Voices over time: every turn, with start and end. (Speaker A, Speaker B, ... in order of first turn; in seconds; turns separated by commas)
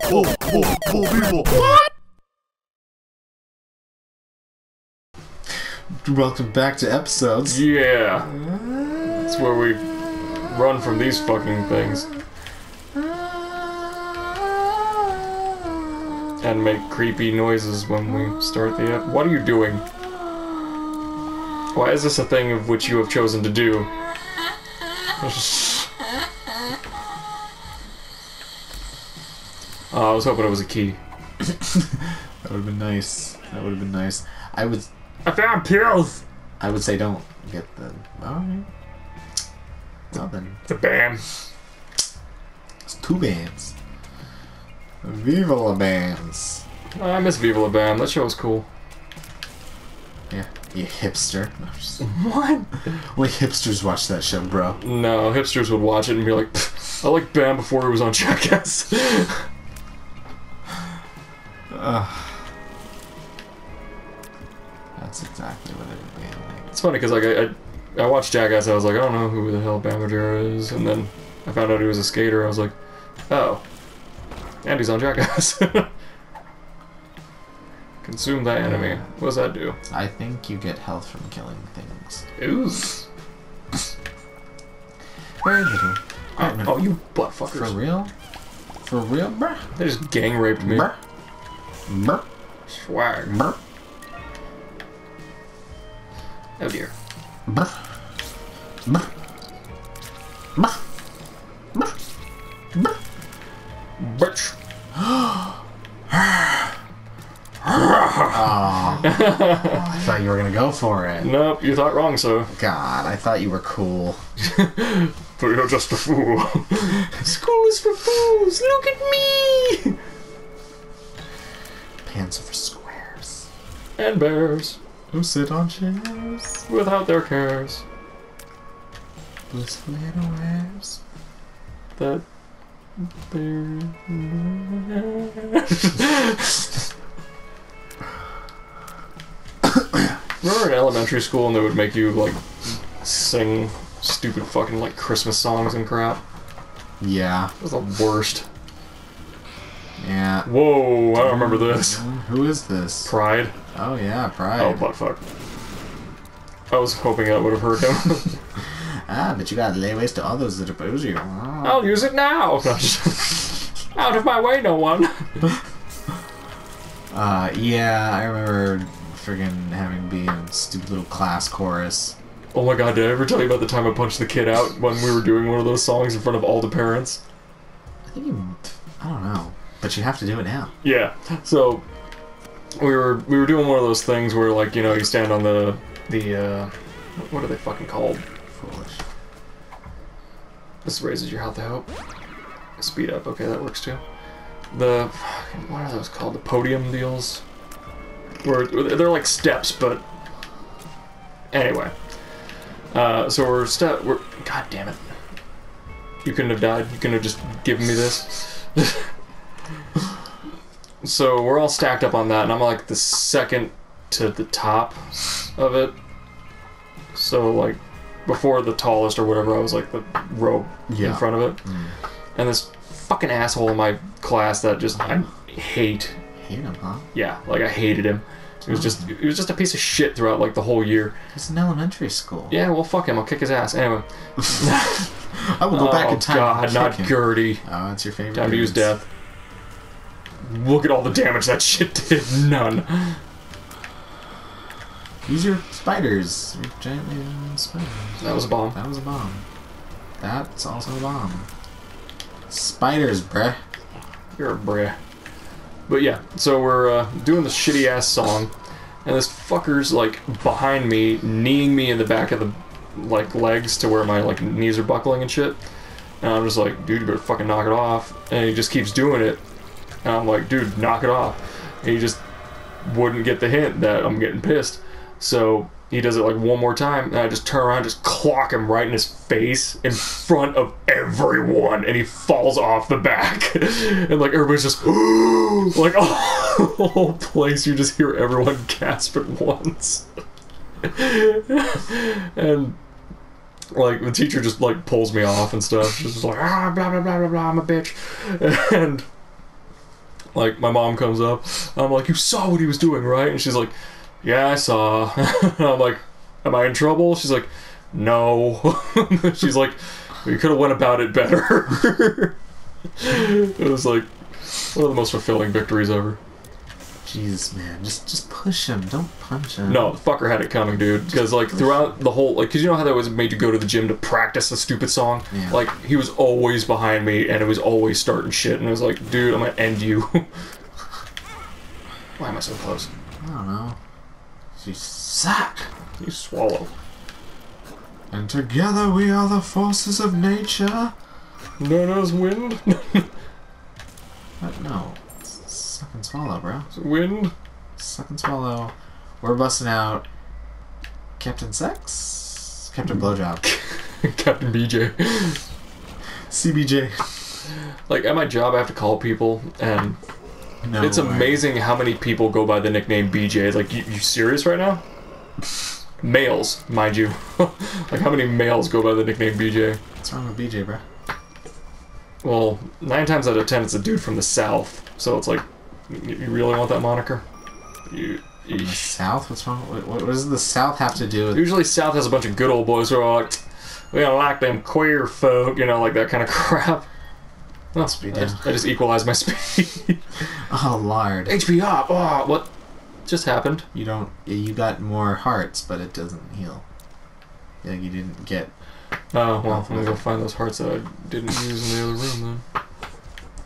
Speaker A: 6.0-7.6, Speaker B: 7.5-8.3, Speaker A: 8.2-9.3, Speaker B: 9.1-12.1, Speaker A: 13.0-14.2, Speaker B: 16.4-19.8, Speaker B: 21.7-23.9, Speaker B: 25.2-25.9, Speaker B: 29.9-31.0, Speaker A: 32.4-34.9, Speaker B: 35.2-36.2, Speaker A: 36.6-38.7, Speaker A: 40.1-40.6, Speaker B: 40.6-41.2, Speaker A: 42.9-43.7, Speaker A: 45.0-46.6, Speaker B: 46.9-48.6, Speaker A: 50.3-52.1, Speaker B: 52.0-53.0, Speaker A: 52.9-54.8, Speaker B: 54.8-59.5, Speaker A: 61.7-62.4, Speaker A: 65.0-66.7, Speaker B: 66.7-72.7, Speaker B: 73.3-73.6, Speaker B: 74.6-75.9, Speaker B: 78.0-79.8, Speaker A: 78.6-79.0, Speaker A: 79.9-82.2, Speaker B: 82.4-83.0, Speaker A: 85.4-86.9, Speaker B: 86.4-87.8, Speaker A: 87.5-88.1, Speaker A: 88.8-89.6, Speaker B: 89.8-90.9, Speaker A: 90.6-91.0, Speaker A: 91.9-92.2, Speaker B: 92.7-93.3, Speaker A: 93.2-93.6, Speaker B: 96.6-96.9, Speaker A: 97.5-97.8, Speaker B: 104.0-104.5, Speaker A: 105.0-105.5, Speaker A: 106.1-106.6, Speaker B: 107.6-110.0, Speaker A: 108.3-111.3, Speaker B: 111.2-112.5, Speaker A: 112.5-114.2, Speaker B: 114.4-120.0, Speaker A: 122.0-123.5, Speaker B: 124.0-124.8, Speaker A: 125.1-126.6, Speaker B: 126.7-127.8, Speaker A: 129.5-131.0, Speaker B: 132.0-132.2, Speaker B: 133.0-136.6, Speaker B: 140.4-142.4, Speaker B: 143.0-146.2, Speaker A: 147.0-147.5, Speaker B: 147.6-148.5, Speaker A: 150.0-150.5, Speaker B: 150.4-152.0, Speaker A: 151.1-153.1, Speaker B: 153.1-153.5, Speaker A: 153.7-154.8, Speaker B: 154.6-155.2, Speaker B: 156.7-158.4, Speaker A: 159.1-162.1, Speaker B: 161.6-165.5, Speaker A: 167.1-172.1, Speaker B: 172.5-177.2, Speaker A: 178.1-180.7, Speaker B: 180.8-181.8, Speaker B: 182.8-188.2, Speaker A: 188.5-189.0, Speaker B: 190.8-191.9, Speaker B: 192.8-194.0, Speaker B: 194.7-197.4, Speaker B: 198.4-200.0, Speaker B: 201.5-201.9, Speaker B: 202.9-205.1, Speaker B: 206.2-209.1, Speaker B: 211.0-215.9, Speaker B: 217.1-221.6, Speaker A: 220.9-221.9, Speaker B: 222.3-226.2, Speaker A: 226.4-227.1, Speaker B: 227.1-231.1, Speaker A: 228.6-229.1, Speaker A: 231.3-232.6, Speaker B: 232.5-235.1, Speaker A: 235.3-238.9, Speaker B: 235.7-237.6, Speaker B: 238.3-239.1, Speaker B: 240.4-243.2, Speaker A: 245.2-249.4, Speaker B: 248.2-248.8, Speaker A: 250.2-251.5, Speaker A: 252.5-253.6, Speaker B: 254.4-255.0, Speaker B: 255.9-258.5, Speaker B: 259.0-265.6, Speaker B: 266.2-269.4, Speaker B: 270.0-272.2, Speaker B: 272.8-290.0, Speaker B: 290.8-292.8, Speaker B: 293.7-299.0, Speaker B: 300.3-312.3, Speaker B: 313.0-314.1, Speaker B: 314.7-316.2, Speaker A: 317.0-319.9, Speaker B: 319.6-330.2, Speaker A: 321.3-321.8, Speaker A: 325.3-325.6, Speaker B: 332.2-332.9, Speaker A: 333.2-333.8, Speaker A: 334.6-335.7, Speaker B: 336.0-336.7, Speaker A: 338.1-340.9, Speaker B: 341.6-343.1, Speaker A: 344.4-346.7, Speaker B: 346.7-347.3, Speaker A: 347.8-350.1, Speaker A: 351.2-353.4, Speaker B: 353.4-355.4, Speaker A: 356.3-357.1, Speaker B: 357.9-360.0, Speaker A: 360.6-361.5, Speaker B: 360.8-364.8, Speaker B: 366.0-369.8, Speaker A: 370.0-370.8, Speaker B: 372.2-377.2, Speaker B: 377.9-379.0, Speaker A: 378.5-381.6, Speaker B: 381.3-383.4, Speaker B: 383.9-386.9, Speaker B: 387.7-390.0, Speaker A: 388.0-388.4, Speaker A: 390.5-391.4, Speaker B: 391.3-392.5, Speaker B: 393.1-393.6, Speaker A: 393.7-396.6, Speaker A: 397.6-398.5, Speaker B: 399.1-402.4, Speaker A: 399.4-400.0